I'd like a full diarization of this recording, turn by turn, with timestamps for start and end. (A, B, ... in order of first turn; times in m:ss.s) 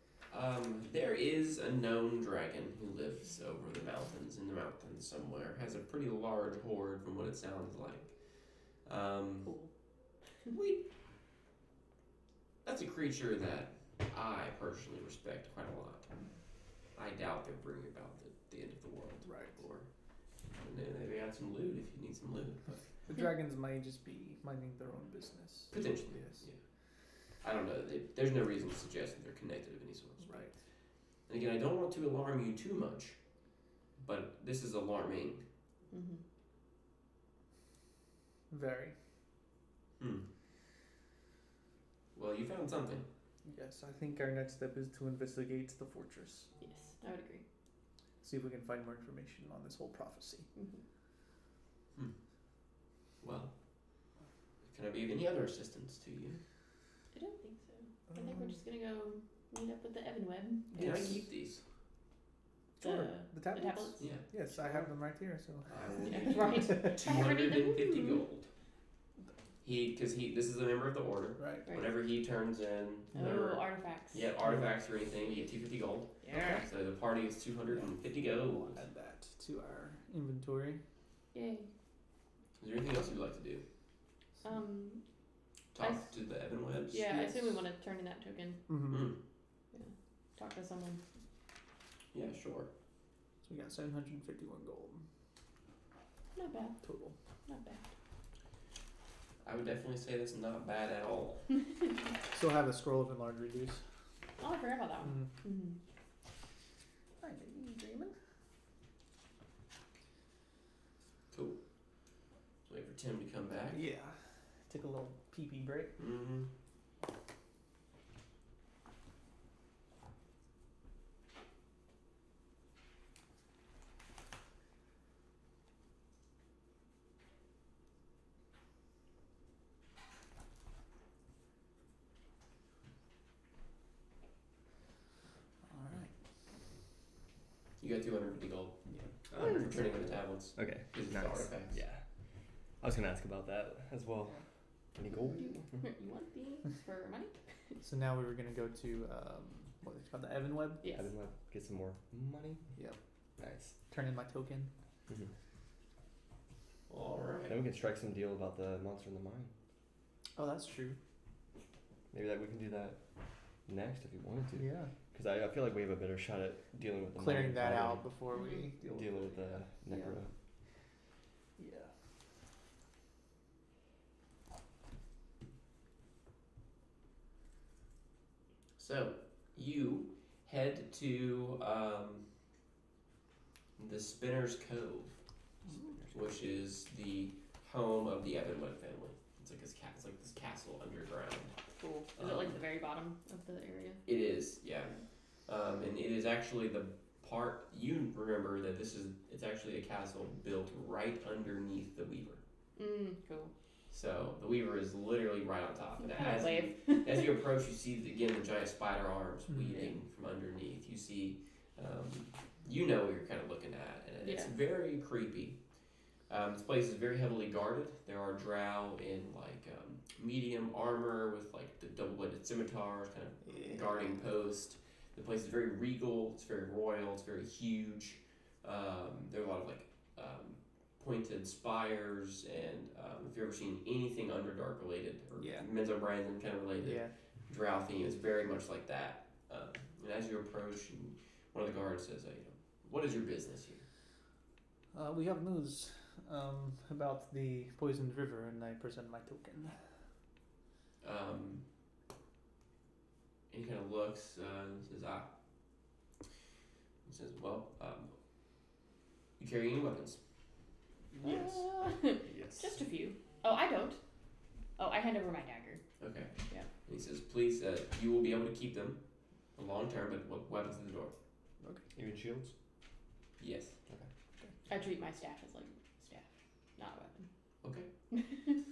0:00.3-0:08.1 A
0:08.8-0:09.5 A
0:10.5-0:10.9 A
0:12.6-0:16.1 A
0:17.0-0:19.9 A
0:19.2-0:19.6 B
0:20.6-0:22.8 A
0:23.1-0:26.4 B
0:25.7-0:26.6 A
0:27.4-0:30.4 A
0:30.2-0:30.6 B
0:31.3-0:33.2 A
0:34.0-0:35.4 A
0:35.9-0:36.2 C
0:38.5-0:39.0 B
0:40.0-0:40.3 A
0:42.2-0:43.1 A
0:43.4-0:46.5 B
0:46.6-0:47.4 C
0:48.2-0:50.5 B
0:50.6-0:50.8 C
0:53.2-0:53.5 A
0:54.7-0:56.4 A
0:57.1-1:01.2 C
0:58.1-0:58.6 B
1:00.7-1:01.2 B
1:00.8-1:01.6 A
1:02.8-1:07.0 B
1:02.8-1:04.0 C
1:04.0-1:04.8 A
1:05.7-1:08.5 A
1:06.0-1:08.2 C
1:09.6-1:18.8 A
1:11.4-1:11.7 B
1:13.2-1:14.3 C
1:16.2-1:16.6 C
1:18.2-1:20.8 B
1:21.3-1:21.7 C
1:22.6-1:23.6 A
1:24.4-1:25.0 C
1:25.7-1:27.4 A
1:25.8-1:26.1 C
1:26.9-1:28.6 C
1:28.7-1:29.1 B
1:28.9-1:29.2 A
1:29.7-1:31.0 C
1:32.1-1:32.7 A
1:33.4-1:35.0 B
1:36.4-1:36.8 C
1:36.8-1:37.2 B
1:37.5-1:37.9 C
1:39.4-1:41.4 A
1:42.3-1:43.8 B
1:44.4-1:45.8 C
1:45.0-1:45.3 B
1:47.2-1:48.2 B
1:51.3-1:51.6 A
1:52.7-1:53.8 A
1:53.7-1:54.2 B
1:54.7-1:56.0 B
1:56.0-1:56.5 A
2:15.7-2:16.1 B
2:17.8-2:21.8 A
2:20.6-2:22.0 D
2:22.8-2:24.4 D
2:25.0-2:25.9 D
2:25.4-2:27.3 C
2:27.8-2:30.8 B
2:30.8-2:31.1 C
2:30.9-2:32.7 D
2:33.4-2:33.8 D
2:33.9-2:34.7 B
2:36.9-2:37.6 A
2:37.5-2:39.5 D
2:40.4-2:41.0 B
2:42.1-2:43.0 D
2:43.7-2:48.1 D
2:44.6-2:44.9 B
2:47.2-2:49.7 B
2:48.3-2:48.7 C
2:48.9-2:50.3 D
2:51.6-2:51.9 B
2:58.8-3:02.2 A
3:03.8-3:05.2 A
3:05.7-3:06.0 B
3:06.1-3:11.5 A
3:11.8-3:14.0 C
3:12.2-3:12.6 A
3:14.1-3:22.4 A
3:22.8-3:23.5 C
3:23.9-3:35.6 A
3:26.1-3:27.2 C
3:34.2-3:34.5 C
3:36.3-4:03.8 A
3:43.5-3:43.8 B
3:55.4-3:55.7 B
3:56.8-3:57.1 B
4:04.9-4:09.8 B
4:11.0-4:11.6 A
4:13.5-4:15.3 A
4:17.0-4:18.1 A
4:19.4-4:20.2 A
4:21.2-4:24.0 C
4:22.2-4:22.8 D
4:24.8-4:25.8 C
4:26.0-4:26.3 A
4:26.8-4:29.0 A
4:29.6-4:31.2 A
4:32.0-4:32.5 D
4:33.4-4:33.8 A
4:34.7-4:36.2 C
4:36.8-4:37.3 C
4:37.6-4:37.9 A
4:38.2-4:38.6 C